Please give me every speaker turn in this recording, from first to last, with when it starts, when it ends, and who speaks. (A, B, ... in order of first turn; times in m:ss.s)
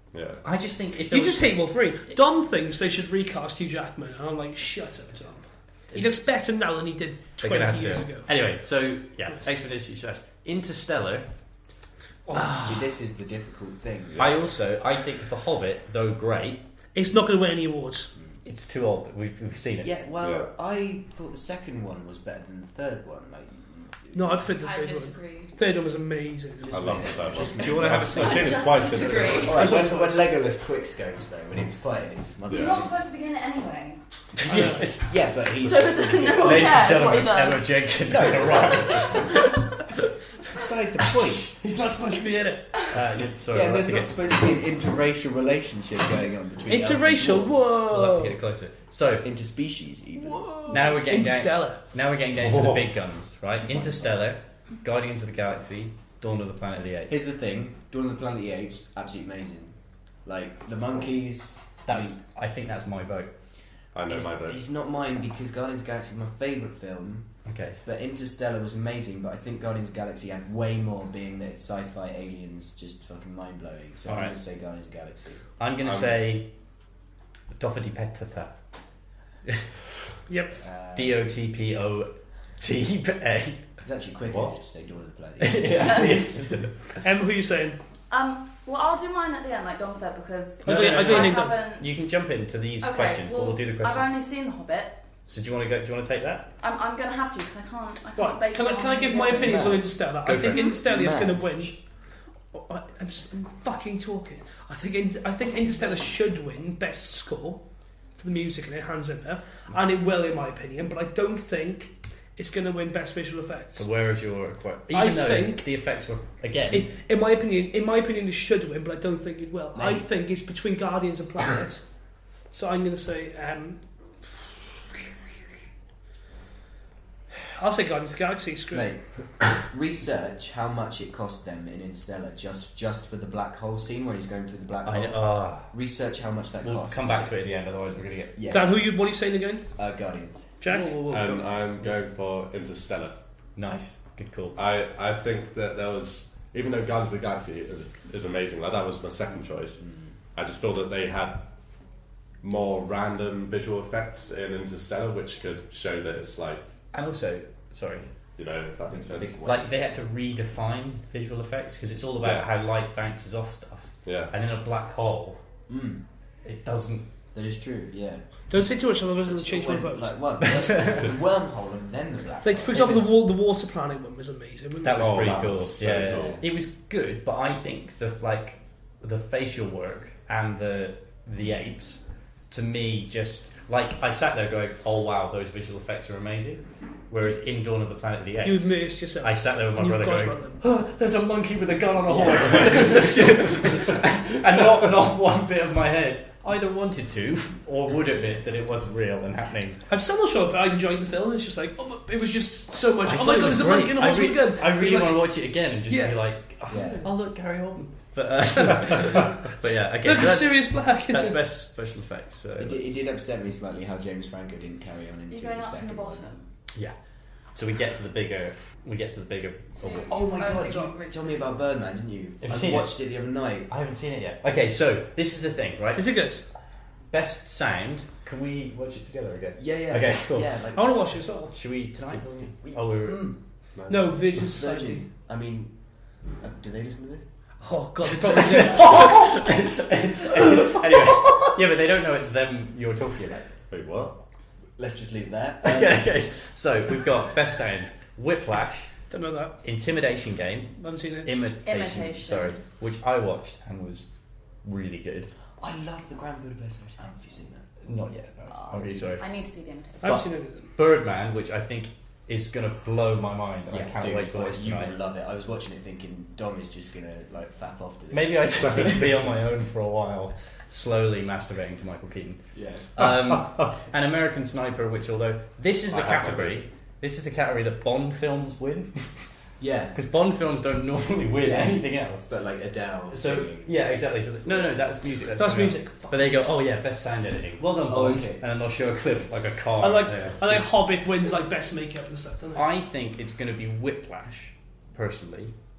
0:00.1-0:00.4 A
0:00.4-0:01.6 B
0:01.1-0:08.3 C
0:07.4-0:11.3 B
0:12.3-0:12.6 C
0:12.3-0:12.9 B
0:12.6-0:14.5 D
0:14.2-0:16.6 B
0:17.0-0:18.1 C
0:18.4-0:19.9 B
0:19.8-0:24.5 D
0:20.2-0:20.5 A
0:24.1-0:27.1 C
0:24.6-0:25.5 E
0:26.7-0:28.4 D
0:26.7-0:29.6 A
0:26.9-0:29.7 B
0:28.0-0:29.6 E
0:29.1-0:32.9 D
0:29.5-0:30.2 C
0:32.5-0:32.9 A
0:32.5-0:34.0 E
0:34.4-0:35.1 B
0:34.5-0:34.8 C
0:34.5-0:37.0 D
0:35.6-0:37.8 E
0:36.4-0:39.9 B
0:38.1-0:39.4 D
0:40.5-0:41.5 D
0:41.0-0:44.2 B
0:43.5-0:47.6 D
0:46.7-0:48.4 C
0:47.9-0:49.3 B
0:49.2-0:50.6 D
0:50.2-0:51.8 C
0:50.7-0:57.2 B
0:52.4-0:52.8 A
0:53.7-0:54.2 D
0:57.1-1:02.2 D
1:01.9-1:03.3 B
1:03.9-1:04.6 A
1:04.1-1:07.3 D
1:07.5-1:07.8 B
1:07.8-1:15.4 D
1:14.1-1:14.4 B
1:15.6-1:16.5 B
1:15.8-1:16.2 A
1:17.5-1:18.6 B
1:20.3-1:20.5 C
1:20.6-1:21.2 D
1:21.0-1:23.6 B
1:23.8-1:26.1 D
1:24.3-1:24.6 A
1:25.4-1:27.0 B
1:27.0-1:27.8 C
1:28.1-1:32.0 E
1:30.6-1:31.6 C
1:30.6-1:34.1 B
1:32.8-1:35.0 E
1:35.3-1:36.5 B
1:36.6-1:39.8 E
1:38.2-1:41.8 C
1:39.4-1:39.9 D
1:40.2-1:40.7 B
1:40.5-1:40.8 E
1:40.8-1:41.7 D
1:42.5-1:47.6 C
1:48.2-1:53.9 C
1:53.8-1:56.9 B
1:54.9-1:55.7 C
1:56.7-2:01.8 C
1:59.7-2:00.0 D
2:02.5-2:04.3 C
2:07.5-2:08.9 C
2:08.7-2:17.3 D
2:14.8-2:15.7 B
2:16.6-2:18.4 B
2:18.4-2:18.9 D
2:18.5-2:19.7 C
2:19.8-2:20.5 D
2:20.6-2:21.0 C
2:20.6-2:21.5 B
2:21.1-2:23.2 A
2:23.6-2:24.6 B
2:24.6-2:29.8 A
2:29.8-2:30.1 D
2:30.3-2:31.5 A
2:32.4-2:36.7 A
2:36.9-2:38.1 B
2:38.4-2:39.4 A
2:38.8-2:39.8 D
2:39.4-2:45.4 B
2:42.2-2:42.5 A
2:44.0-2:44.3 A
2:45.7-2:46.0 D
2:46.4-2:47.1 B
2:47.3-2:48.2 D
2:48.5-2:50.2 C
2:49.2-2:53.0 D
2:50.4-2:51.1 B
2:52.4-2:55.4 C
2:52.8-2:53.1 B
2:54.8-3:19.8 B
2:55.0-2:56.4 A
2:55.1-2:56.4 D
3:08.4-3:10.6 C
3:12.1-3:13.1 D
3:19.9-3:25.3 C
3:23.0-3:33.1 B
3:25.9-3:26.2 C
3:26.7-3:27.1 D
3:30.0-3:31.4 C
3:32.6-3:36.3 D
3:35.3-3:36.5 E
3:37.5-3:40.1 B
3:39.8-3:41.4 E
3:40.0-3:43.7 D
3:42.4-3:43.0 B
3:43.7-3:46.1 B
3:46.0-3:46.4 C
3:47.1-3:50.6 B
3:49.6-3:51.1 D
3:50.8-3:51.6 C
3:51.5-3:53.3 B
3:52.1-3:53.4 D
3:53.8-3:54.3 A
3:53.9-3:55.0 C
3:54.4-3:55.7 D
3:56.4-3:57.3 D
3:57.6-3:59.4 C
3:58.2-4:03.5 B
4:03.7-4:04.2 A
4:04.8-4:06.1 D
4:05.6-4:08.9 B
4:09.1-4:09.6 C
4:09.6-4:14.1 B
4:10.8-4:11.3 C
4:11.6-4:12.6 E
4:14.6-4:15.3 B
4:15.6-4:17.7 D
4:17.8-4:19.2 B
4:18.5-4:19.1 D
4:19.2-4:20.2 E
4:20.0-4:20.7 C
4:20.0-4:25.0 B
4:23.7-4:29.1 D
4:28.1-4:32.4 B
4:32.5-4:33.0 D
4:32.9-4:39.3 B
4:33.4-4:33.7 A
4:35.9-4:36.6 A
4:39.6-4:40.0 D
4:39.9-4:42.3 B
4:41.4-4:43.7 D
4:43.1-4:50.7 B
4:45.4-4:46.5 C
4:47.9-4:48.4 D
4:49.8-4:52.7 C
4:52.5-4:55.5 B